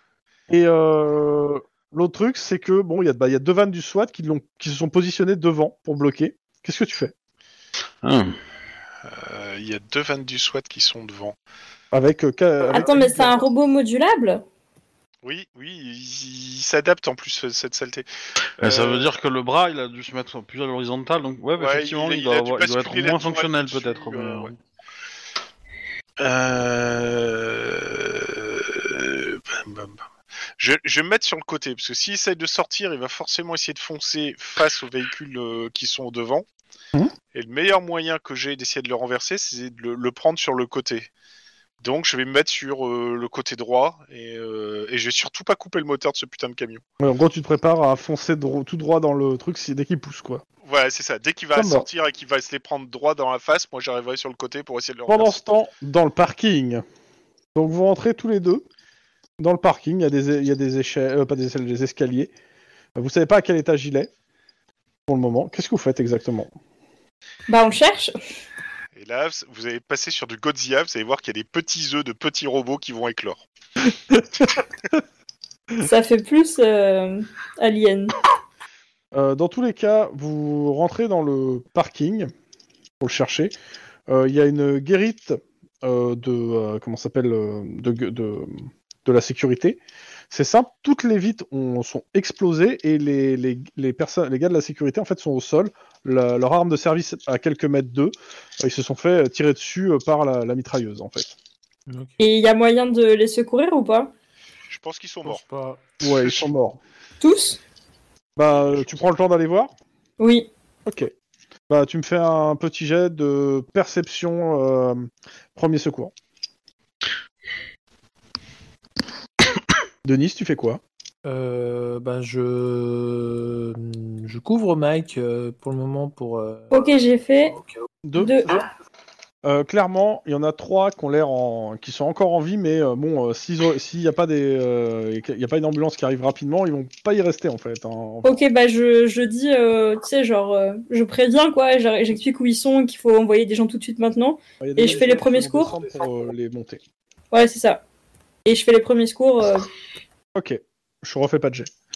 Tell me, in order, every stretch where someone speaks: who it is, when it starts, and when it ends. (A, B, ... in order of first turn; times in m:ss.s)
0:00.5-0:07.1 A
0:08.0-0:08.3 B
0:09.0-0:11.4 C
0:11.9-0:13.3 A
0:12.7-0:14.4 D
0:15.2-0:18.0 C
0:18.6-0:24.5 B
0:18.6-0:19.1 C
0:21.6-0:24.5 C
0:26.2-0:30.0 C
0:30.6-0:36.4 C
0:37.3-0:41.1 C
0:41.8-0:46.8 C
0:47.0-0:50.4 A
0:50.6-0:55.4 C
0:51.5-0:51.9 A
0:55.1-0:56.8 A
0:57.5-0:58.6 A
0:59.4-1:02.3 A
1:03.0-1:04.1 A
1:05.1-1:06.5 A
1:07.5-1:08.1 D
1:08.9-1:13.4 C
1:13.8-1:14.6 A
1:15.8-1:18.1 D
1:19.1-1:22.3 A
1:23.0-1:23.5 A
1:24.1-1:29.8 A
1:30.3-1:41.3 A
1:41.9-1:42.2 E
1:42.2-1:44.1 D
1:44.7-1:45.4 C
1:45.2-1:45.8 E
1:46.0-1:46.8 A
1:46.0-1:46.5 C
1:47.2-1:47.6 D
1:48.4-1:49.7 A
1:48.5-1:49.0 C
1:50.2-1:50.5 D
1:50.8-1:51.1 A
1:51.7-1:56.1 A
2:00.0-2:00.8 A
2:01.2-2:06.7 E
2:06.7-2:07.6 D
2:08.0-2:08.5 A
2:08.2-2:08.6 D
2:09.4-2:18.4 A
2:18.2-2:25.7 D
2:24.6-2:26.8 A
2:27.3-2:27.8 D
2:28.4-2:29.7 D
2:30.3-2:31.7 A